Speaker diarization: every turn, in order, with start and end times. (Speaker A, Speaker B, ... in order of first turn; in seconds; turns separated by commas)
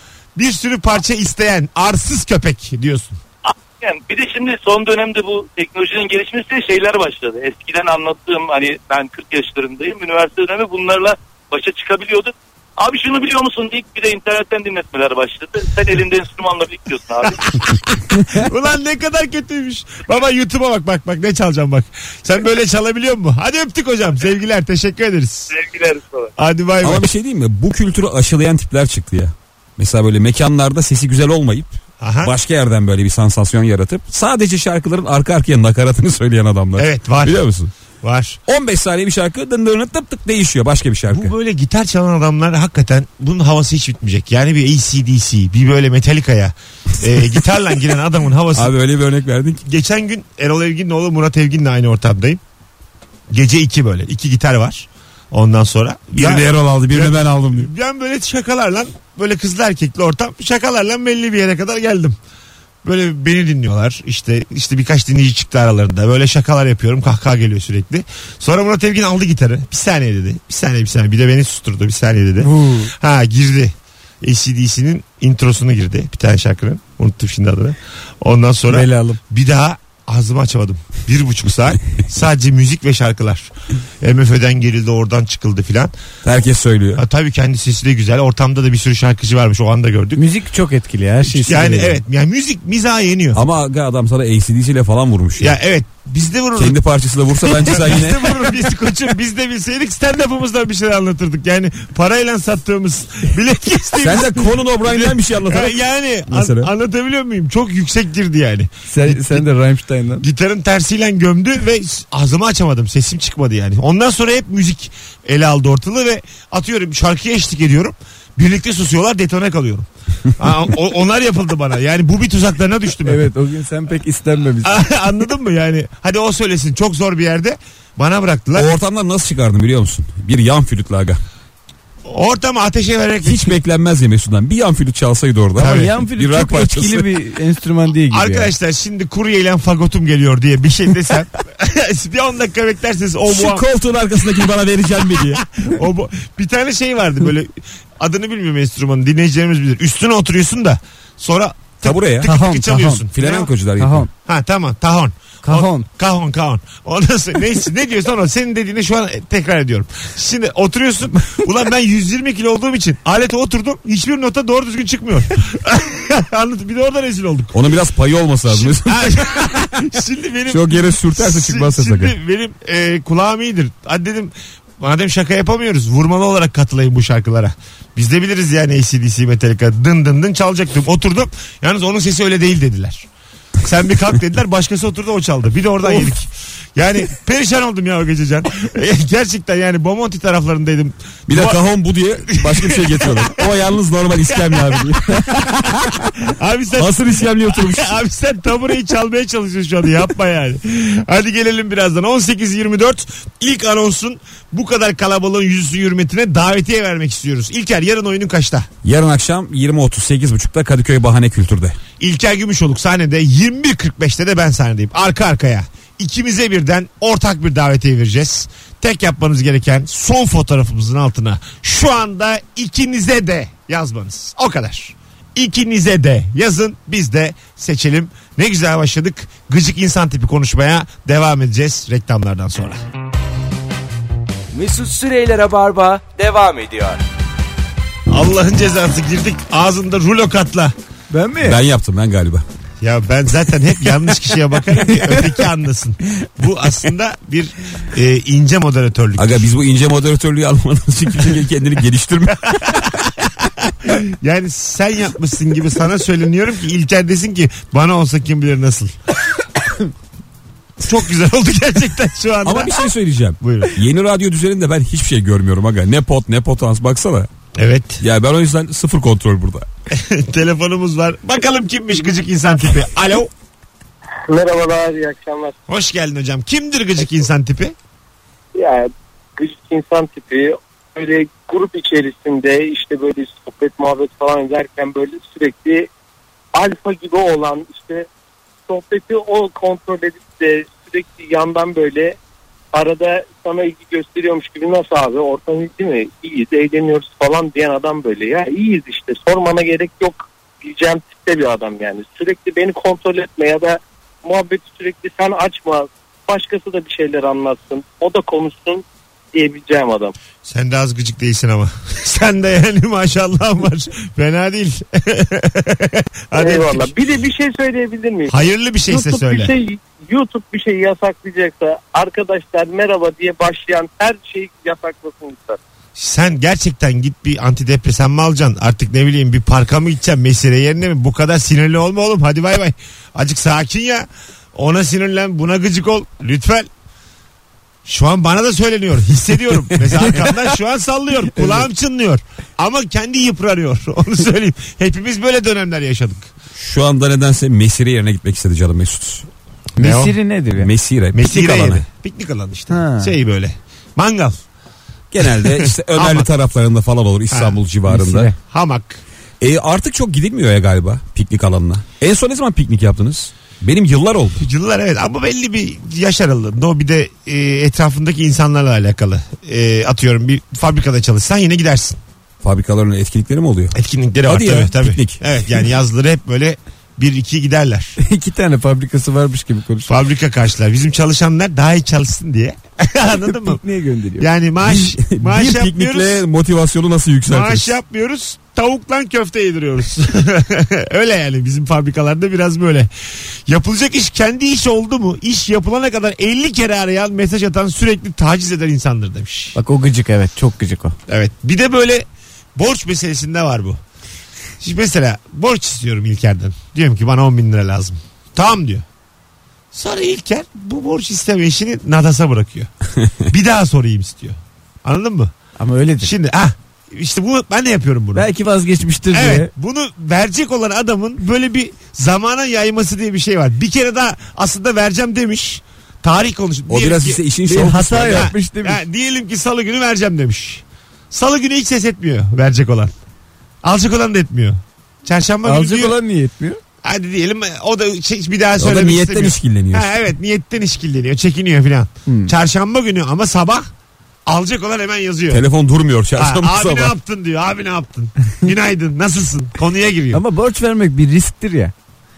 Speaker A: 0.4-3.2, Speaker B: 3.4-17.7, Speaker A: 18.3-25.5, Speaker B: 25.5-26.3, Speaker A: 26.4-27.1, Speaker C: 26.8-37.7, Speaker A: 32.0-32.3, Speaker A: 36.8-37.4, Speaker A: 38.0-38.4, Speaker C: 38.5-41.3, Speaker A: 41.1-48.7, Speaker C: 48.5-49.6, Speaker A: 49.6-52.4, Speaker A: 53.3-62.2, Speaker C: 56.2-57.7, Speaker A: 62.8-85.9, Speaker D: 72.4-72.9, Speaker D: 78.7-79.2, Speaker C: 86.2-87.0, Speaker A: 87.0-90.2, Speaker D: 90.2-92.0, Speaker A: 91.3-93.4, Speaker C: 93.3-95.6, Speaker A: 95.4-96.8, Speaker C: 96.6-98.5, Speaker A: 97.4-109.5, Speaker C: 104.0-105.8, Speaker C: 106.3-106.7, Speaker D: 108.9-110.2, Speaker A: 110.2-123.3, Speaker D: 123.0-124.8, Speaker A: 124.6-128.7, Speaker C: 128.6-131.2, Speaker A: 132.1-133.6, Speaker C: 133.2-137.1, Speaker A: 135.6-135.9, Speaker D: 135.6-138.5, Speaker A: 138.1-143.7, Speaker C: 143.3-145.4, Speaker A: 145.2-153.5, Speaker C: 151.8-154.1, Speaker D: 152.2-153.0, Speaker D: 153.8-154.1, Speaker A: 154.2-167.7, Speaker D: 155.4-155.9, Speaker C: 167.5-169.5, Speaker A: 168.5-183.1, Speaker C: 170.5-172.2, Speaker A: 183.6-191.6, Speaker C: 191.3-196.1, Speaker A: 192.3-193.4, Speaker A: 194.4-208.7, Speaker C: 196.8-198.0, Speaker C: 208.8-211.8, Speaker A: 212.0-232.8, Speaker E: 234.5-237.0, Speaker A: 238.1-240.7, Speaker D: 241.1-241.6, Speaker C: 241.4-242.4, Speaker A: 242.8-249.5, Speaker C: 249.2-252.9, Speaker A: 252.5-252.9, Speaker A: 253.8-259.0, Speaker A: 260.8-262.8, Speaker C: 262.4-267.3, Speaker A: 263.4-263.8, Speaker A: 267.6-268.0, Speaker C: 268.0-269.7, Speaker A: 269.9-273.3, Speaker F: 274.3-275.5, Speaker A: 275.7-277.8, Speaker F: 278.6-285.9, Speaker F: 286.5-288.1, Speaker F: 288.7-292.2, Speaker F: 292.7-310.1, Speaker A: 310.4-316.9, Speaker F: 316.4-325.6, Speaker A: 318.3-319.5, Speaker A: 326.0-336.7, Speaker A: 337.9-346.3, Speaker D: 341.4-341.7, Speaker C: 346.6-349.3, Speaker A: 349.8-350.1, Speaker D: 349.8-350.7, Speaker C: 350.6-351.8, Speaker A: 351.1-354.4, Speaker D: 352.7-353.1, Speaker C: 355.1-358.3, Speaker A: 355.2-356.3, Speaker A: 357.3-357.6, Speaker D: 357.9-358.4, Speaker A: 358.4-359.0, Speaker C: 359.4-364.4, Speaker A: 364.4-372.0, Speaker C: 372.4-373.8, Speaker A: 373.7-378.0, Speaker C: 374.3-375.2, Speaker D: 378.0-379.9, Speaker A: 379.9-383.6, Speaker D: 383.2-384.3, Speaker A: 384.2-386.2, Speaker C: 384.6-387.7, Speaker A: 387.3-392.9, Speaker A: 393.5-399.6, Speaker D: 399.6-401.0, Speaker A: 401.1-403.8, Speaker A: 404.6-408.9, Speaker A: 409.7-412.7, Speaker A: 413.2-415.3, Speaker D: 415.6-416.1, Speaker A: 416.0-418.3, Speaker D: 418.1-419.5, Speaker A: 419.1-427.2, Speaker C: 426.7-428.3, Speaker D: 427.5-428.8, Speaker A: 428.0-432.9, Speaker A: 433.6-435.9, Speaker D: 435.4-436.6, Speaker A: 436.8-443.7, Speaker C: 438.6-439.9, Speaker D: 442.1-442.3, Speaker A: 444.3-445.4, Speaker C: 445.3-446.9, Speaker A: 446.2-450.2, Speaker D: 450.1-451.7